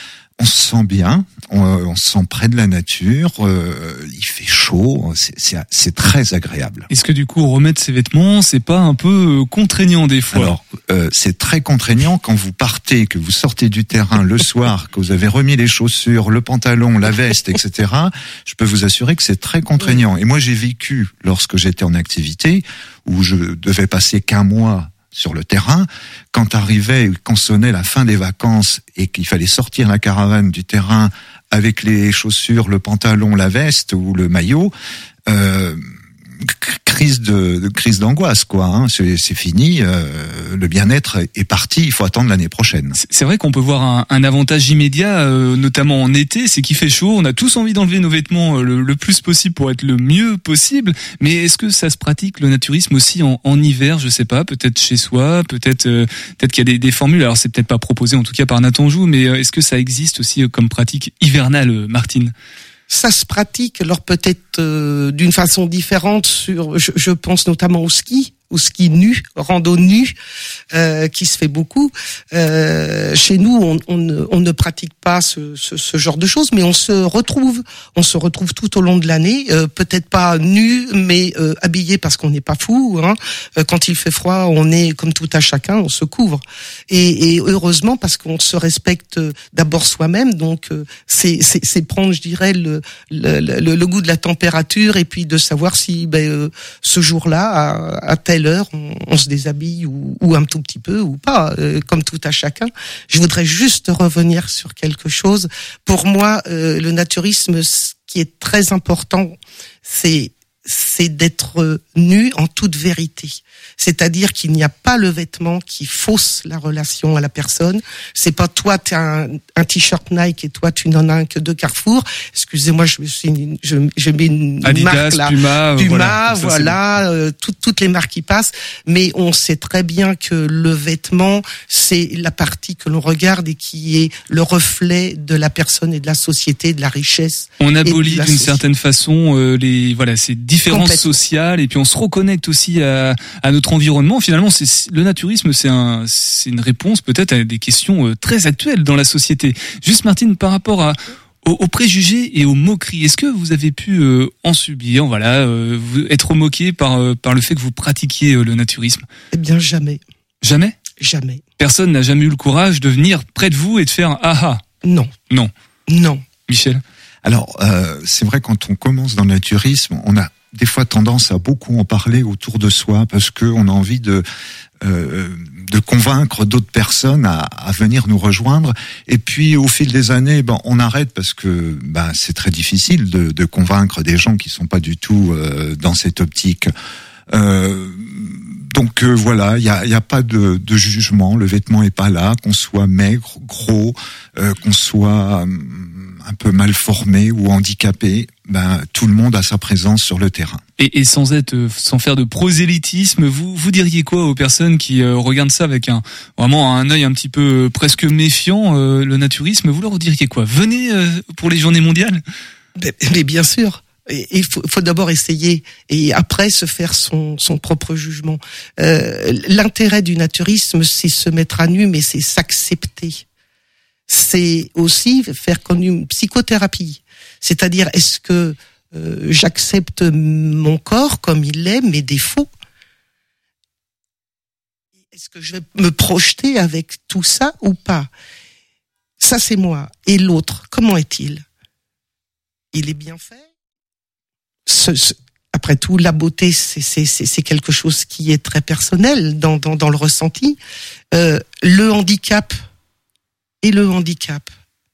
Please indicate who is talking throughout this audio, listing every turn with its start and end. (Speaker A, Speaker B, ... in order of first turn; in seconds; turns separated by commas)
Speaker A: 0.4-6.9, Speaker B: 6.9-10.5, Speaker A: 10.3-34.7, Speaker A: 35.3-35.8, Speaker A: 36.4-43.0, Speaker B: 43.0-62.3, Speaker C: 62.9-70.1, Speaker C: 70.7-138.6, Speaker B: 124.6-126.8, Speaker B: 137.6-159.1, Speaker C: 140.7-141.1, Speaker C: 159.3-160.0, Speaker B: 160.4-160.8, Speaker C: 161.0-161.4, Speaker B: 161.6-164.6, Speaker C: 164.8-165.1, Speaker C: 165.9-166.2, Speaker B: 166.5-166.8, Speaker A: 167.2-174.2, Speaker A: 174.8-186.7, Speaker A: 187.3-200.6, Speaker B: 200.8-212.2, Speaker C: 212.8-223.2, Speaker C: 224.1-232.5, Speaker C: 235.1-238.1, Speaker C: 239.2-241.4, Speaker C: 242.7-243.4, Speaker C: 244.7-250.6, Speaker C: 251.1-252.6, Speaker C: 253.6-254.5